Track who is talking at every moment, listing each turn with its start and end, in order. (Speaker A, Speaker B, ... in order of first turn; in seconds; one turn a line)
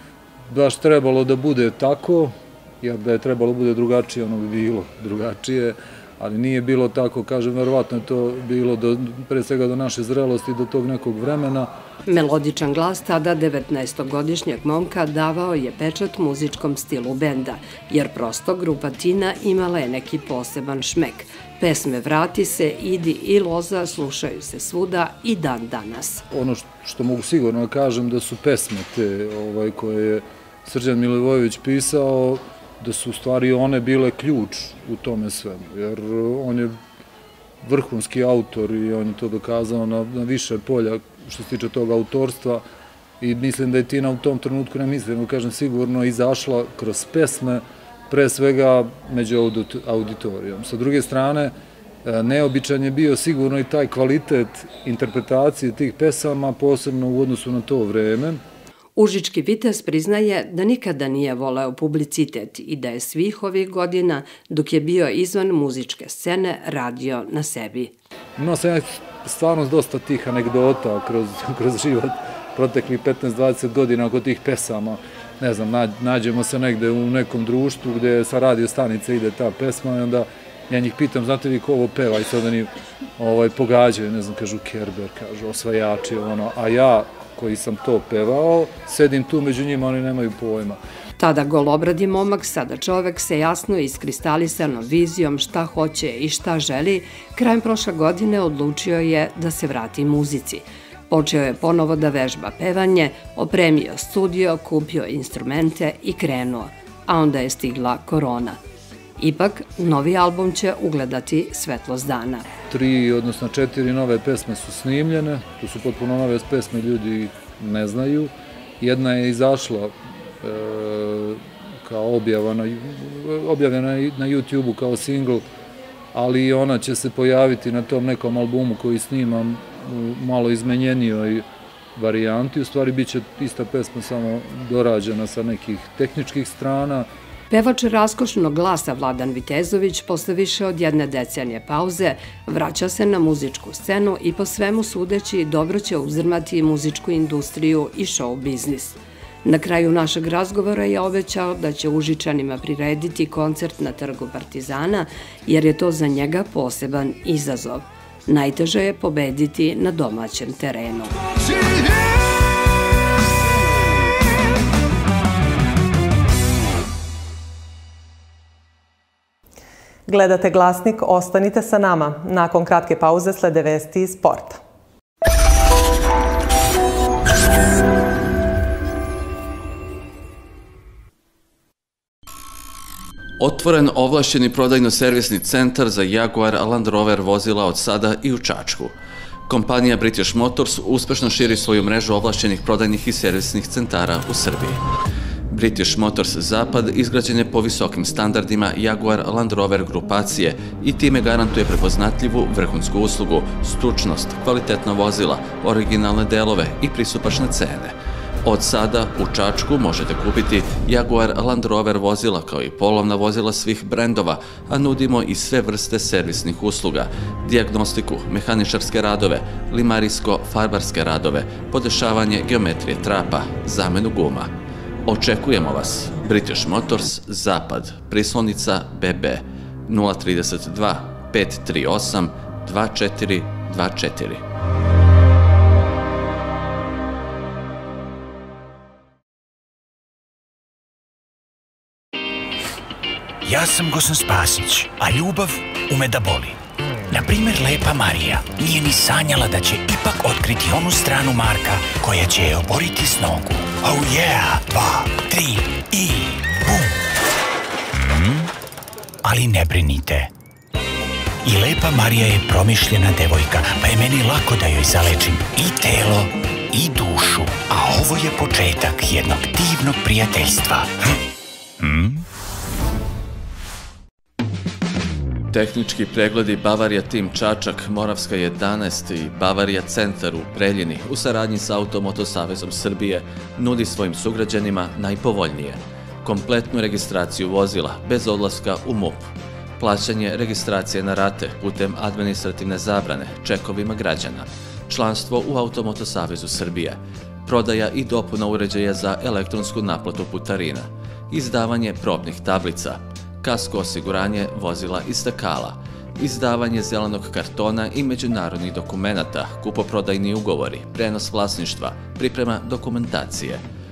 Speaker A: 0.5-11.7
Speaker B: 12.1-26.2
Speaker A: 26.3-36.8
Speaker A: 37.6-42.6
Speaker A: 43.2-51.5
Speaker A: 52.0-58.4
Speaker B: 59.0-67.9
Speaker A: 68.4-90.8
Speaker B: 91.2-108.6
Speaker B: 109.2-112.5
Speaker A: 112.7-125.5
Speaker A: 126.1-131.4
Speaker A: 131.9-137.1
Speaker B: 137.5-161.1
Speaker C: 170.1-174.6
Speaker D: 183.4-188.9
Speaker D: 189.5-194.8
Speaker D: 195.5-224.5
Speaker D: 225.1-234.4
Speaker E: 243.4-246.6
Speaker E: 247.1-257.0
Speaker E: 257.9-258.5
Speaker E: 259.2-260.3
Speaker E: 261.4-270.9
Speaker E: 271.8-272.2
Speaker D: 275.5-313.6